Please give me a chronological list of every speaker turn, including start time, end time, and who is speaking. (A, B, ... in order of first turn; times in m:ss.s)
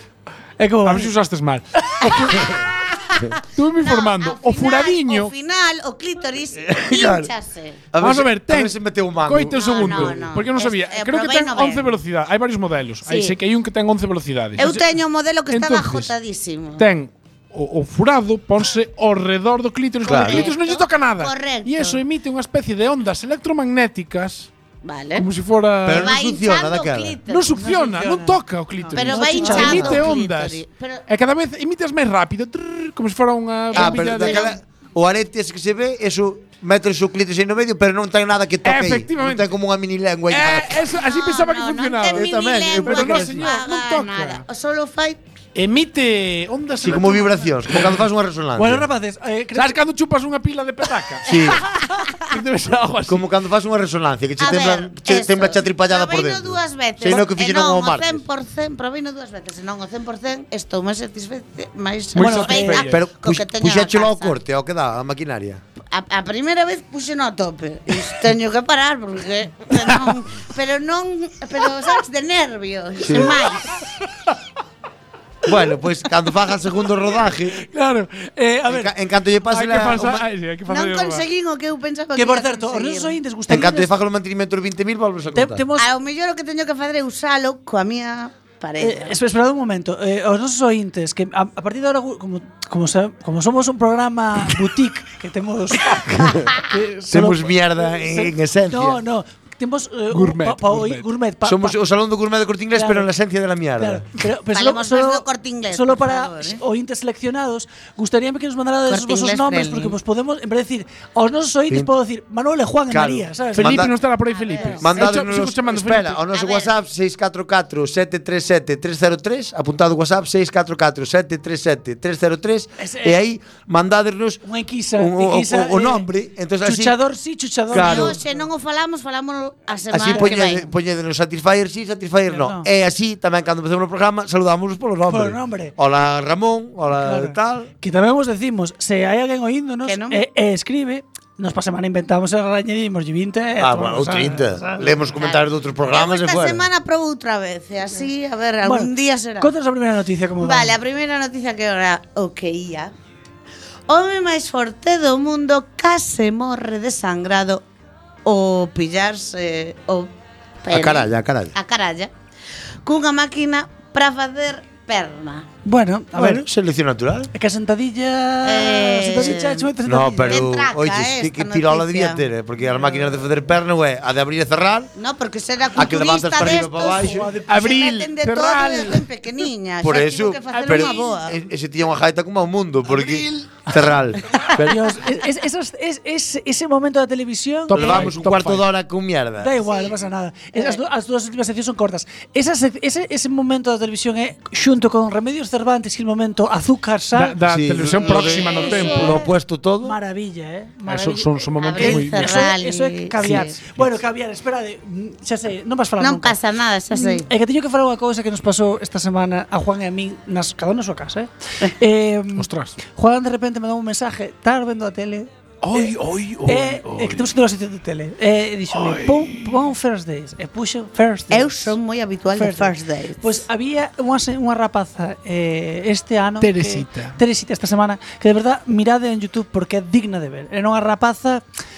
0:00.6-0:01.1 A
0:00.8-0:02.0 B
0:02.1-0:07.9 C
0:03.5-0:05.3 B
0:06.6-0:07.3 D
0:07.9-0:10.3 D
0:08.0-0:14.9 B
0:09.5-0:12.0 C
0:13.0-0:13.4 C
0:14.6-0:16.8 C
0:15.5-0:16.1 B
0:16.8-0:24.5 B
0:20.0-0:20.5 D
0:20.1-0:22.0 C
0:24.8-0:25.3 C
0:25.2-0:26.2 B
0:25.8-0:27.2 D
0:25.9-0:27.6 C
0:27.3-0:34.6 B
0:27.5-0:29.9 A
0:28.9-0:31.0 C
0:29.5-0:30.0 D
0:33.7-0:34.5 C
0:33.7-0:40.9 D
0:38.6-0:39.5 B
0:40.3-0:44.4 B
0:40.9-0:45.2 C
0:42.1-0:43.6 D
0:45.5-0:48.0 B
0:46.8-0:48.8 D
0:48.6-0:49.8 A
0:49.5-0:53.3 B
0:51.2-0:51.6 D
0:53.1-0:58.2 D
0:54.4-1:04.4 C
1:02.1-1:03.1 B
1:02.2-1:02.8 A
1:02.7-1:05.6 D
1:05.9-1:13.8 C
1:13.0-1:13.4 D
1:15.4-1:17.6 D
1:17.7-1:18.9 A
1:18.7-1:20.2 D
1:19.5-1:21.3 B
1:20.7-1:23.2 C
1:22.1-1:23.9 A
1:23.5-1:25.6 D
1:25.3-1:25.9 A
1:25.8-1:29.2 C
1:28.8-1:41.8 A
1:37.1-1:39.0 D
1:40.1-1:41.0 B
1:41.4-1:44.0 D
1:42.7-1:43.1 A
1:43.8-1:53.9 A
1:44.5-1:46.6 C
1:48.9-1:50.0 C
1:52.9-1:54.0 D
1:53.5-1:56.2 B
1:54.3-1:55.2 C
1:54.8-2:04.4 D
1:56.3-1:56.7 C
2:02.8-2:03.2 A
2:04.4-2:06.1 A
2:05.0-2:07.0 D
2:06.6-2:08.3 A
2:07.7-2:08.2 D
2:07.7-2:10.7 C
2:09.9-2:17.7 D
2:10.1-2:10.4 A
2:12.3-2:12.7 A
2:15.1-2:15.7 A
2:17.0-2:25.0 A
2:19.8-2:20.2 C
2:23.6-2:26.6 D
2:25.2-2:29.5 C
2:28.6-2:30.7 A
2:30.4-2:32.9 C
2:33.9-2:37.6 C
2:38.2-2:40.1 C
2:40.6-2:42.1 C
2:40.7-2:41.5 D
2:42.8-2:45.5 C
2:45.6-2:46.5 A
2:46.1-2:47.3 D
2:47.3-2:50.4 A
2:48.4-2:49.7 C
2:49.8-2:54.9 D
2:50.2-2:52.2 C
2:52.7-2:53.1 A
2:55.0-3:01.4 C
2:55.7-2:57.3 D
2:56.4-2:57.8 A
2:57.5-2:59.1 B
2:59.8-3:04.9 D
3:00.6-3:01.1 A
3:04.6-3:08.1 A
3:07.7-3:08.7 B
3:07.7-3:09.6 D
3:09.4-3:17.4 A
3:17.1-3:19.2 B
3:17.4-3:19.9 D
3:18.0-3:19.3 C
3:19.8-3:26.4 A
3:20.8-3:22.5 B
3:21.6-3:23.6 C
3:23.2-3:24.0 B
3:26.0-3:27.3 C
3:26.9-3:35.9 A
3:32.3-3:32.8 B
3:35.6-3:37.3 B
3:36.4-3:41.8 A
3:38.7-3:39.5 B
3:41.3-3:43.4 C
3:42.3-3:51.4 A
3:46.4-3:47.2 B